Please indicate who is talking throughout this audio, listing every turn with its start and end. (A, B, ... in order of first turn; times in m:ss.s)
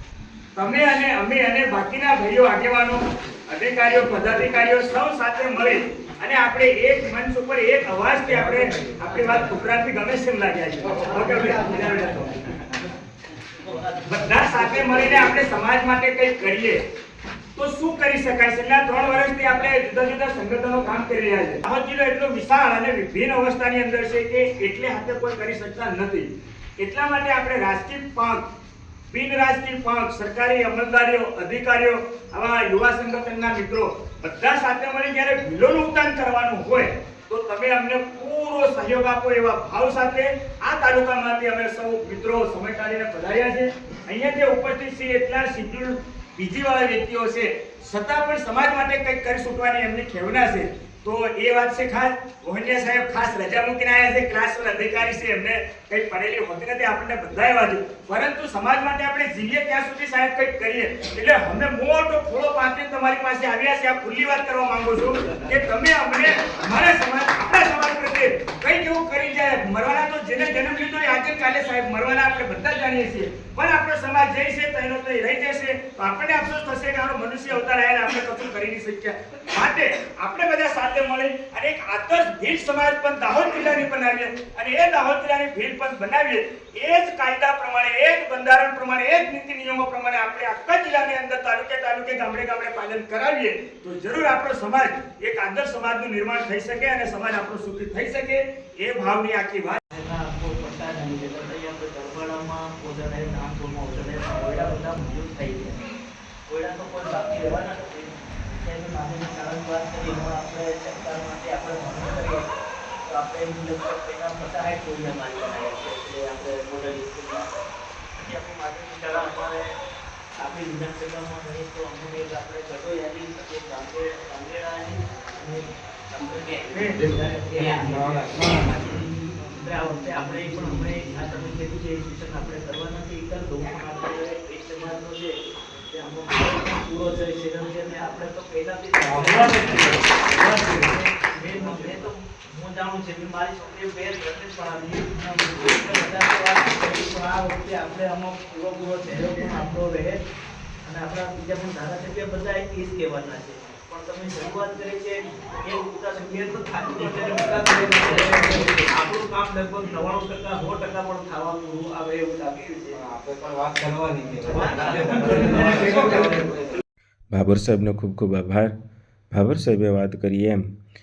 0:00.6-0:12.4 A
0:11.0-0:12.4 B
0:13.6-0:15.1 B
0:14.1-0:16.8 A
0:17.6-0:28.4 A
0:29.1-1:39.8 A
1:39.9-1:45.8 B
1:46.5-1:52.5 B
1:53.0-1:57.5 B
1:58.2-1:59.7 B
2:00.4-2:15.3 B
2:08.2-2:08.4 C
2:15.9-2:30.2 B
2:30.8-2:43.0 B
2:43.1-2:46.6 C
2:44.5-2:46.4 B
2:47.3-2:48.7 D
2:49.3-2:50.6 D